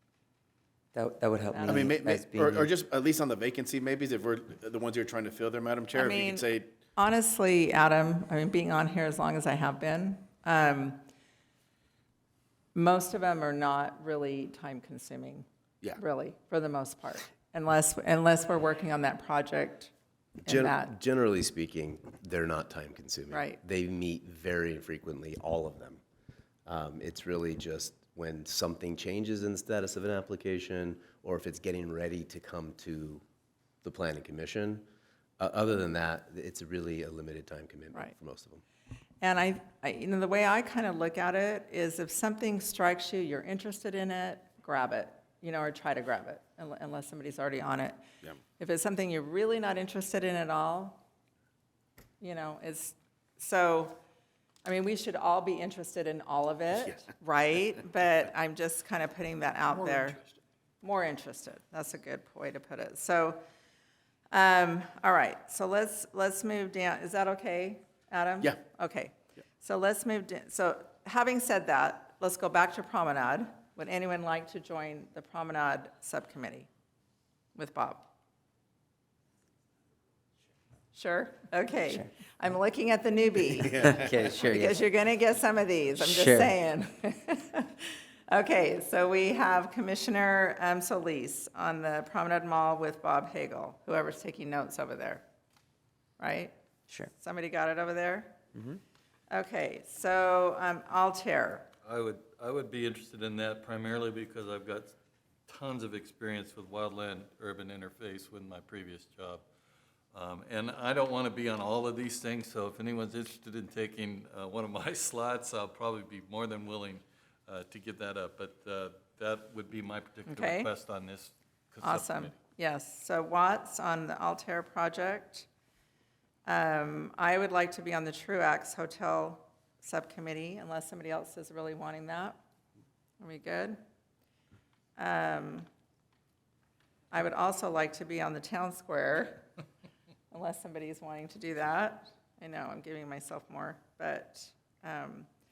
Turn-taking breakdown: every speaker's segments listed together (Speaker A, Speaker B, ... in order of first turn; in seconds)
Speaker A: 0.9-2.7, 83.7-84.8, 86.0-86.5, 98.5-98.8
Speaker B: 1.5-2.0, 5.9-11.0, 12.7-19.9, 20.4-20.9, 23.3-23.6, 39.2-48.0, 48.6-51.0, 52.2-54.0, 54.6-60.2, 60.8-63.4, 64.3-76.7, 77.5-78.1, 80.9-95.2, 96.2-96.5, 97.2-98.4, 99.3-101.7, 120.3-120.7, 121.8-125.5, 126.5-132.4, 133.2-133.8, 135.0-135.7, 137.1-139.5, 140.3-145.3
Speaker C: 1.6-6.7, 83.6-84.1
Speaker D: 20.4-26.0, 26.7-33.2, 33.8-34.9, 35.4-38.6
Speaker E: 101.8-104.9, 105.5-109.4, 110.1-122.3